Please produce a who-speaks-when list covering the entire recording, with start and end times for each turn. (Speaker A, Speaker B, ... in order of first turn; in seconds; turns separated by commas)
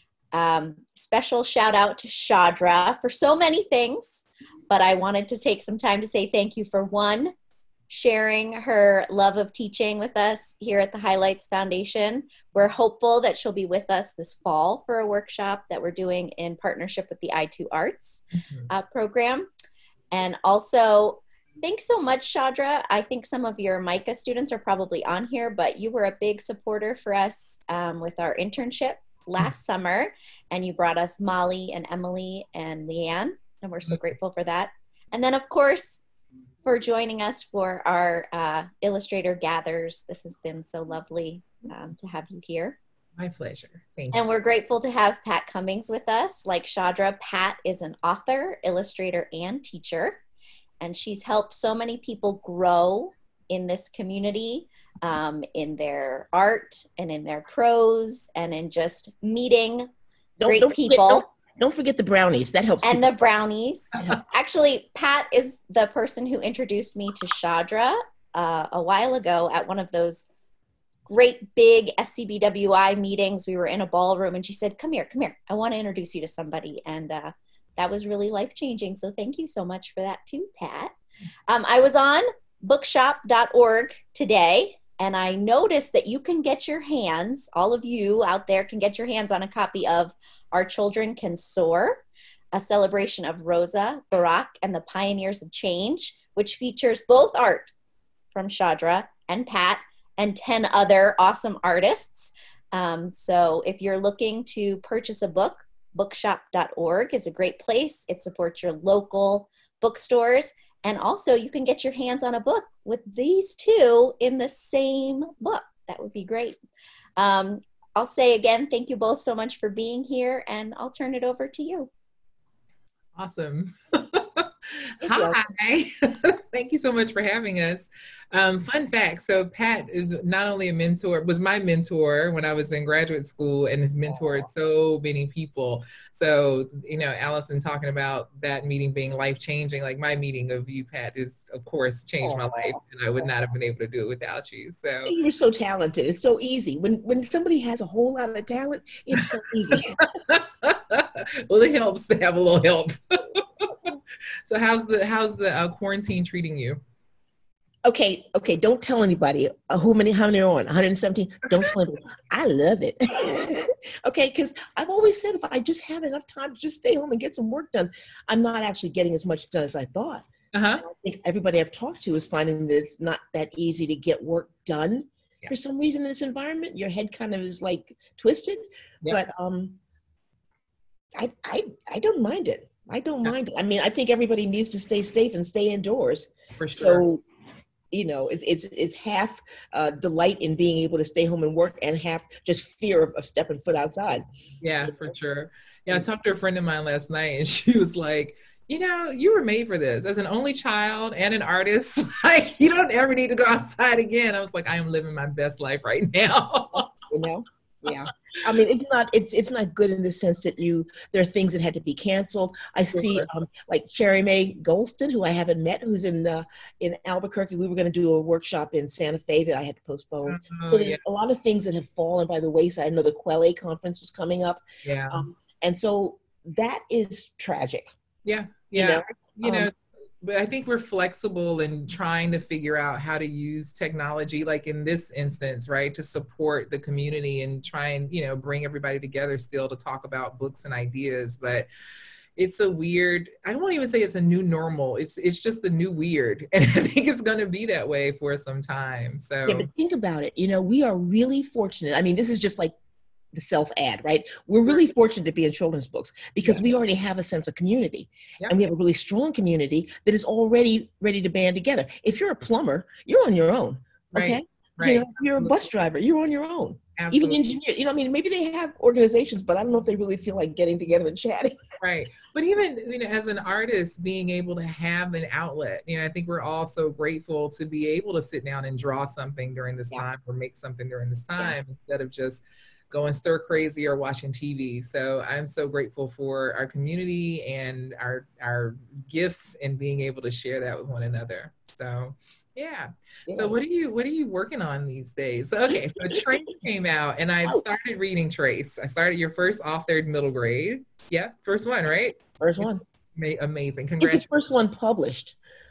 Speaker A: 0.3-7.3, Speaker A: 7.9-19.5, Speaker A: 20.1-36.0, Speaker A: 36.6-42.8, Speaker B: 43.2-44.2, Speaker A: 44.1-50.2, Speaker A: 50.8-59.9, Speaker C: 60.4-63.1, Speaker A: 60.4-61.2, Speaker A: 62.8-70.3, Speaker A: 71.1-80.9, Speaker A: 81.5-97.7, Speaker A: 98.3-116.6, Speaker A: 117.2-121.9, Speaker B: 123.2-145.1, Speaker C: 125.0-125.4, Speaker C: 142.2-142.8, Speaker C: 145.0-150.1, Speaker B: 149.2-153.9, Speaker B: 154.5-156.8, Speaker C: 157.8-170.2, Speaker B: 170.5-170.8, Speaker C: 170.8-179.8, Speaker C: 181.2-187.2, Speaker B: 186.6-187.0, Speaker C: 187.9-194.2, Speaker B: 194.6-206.9, Speaker C: 194.8-195.1, Speaker C: 207.1-227.9, Speaker B: 212.9-213.3, Speaker B: 220.2-221.0, Speaker B: 224.8-225.2, Speaker B: 228.2-241.7, Speaker C: 228.7-229.7, Speaker B: 242.4-249.7, Speaker C: 249.4-252.7, Speaker C: 253.3-271.6, Speaker B: 264.1-265.6, Speaker B: 267.0-267.5, Speaker B: 271.8-304.2, Speaker C: 293.3-293.6, Speaker C: 296.0-296.4, Speaker C: 302.4-302.8, Speaker C: 304.0-305.4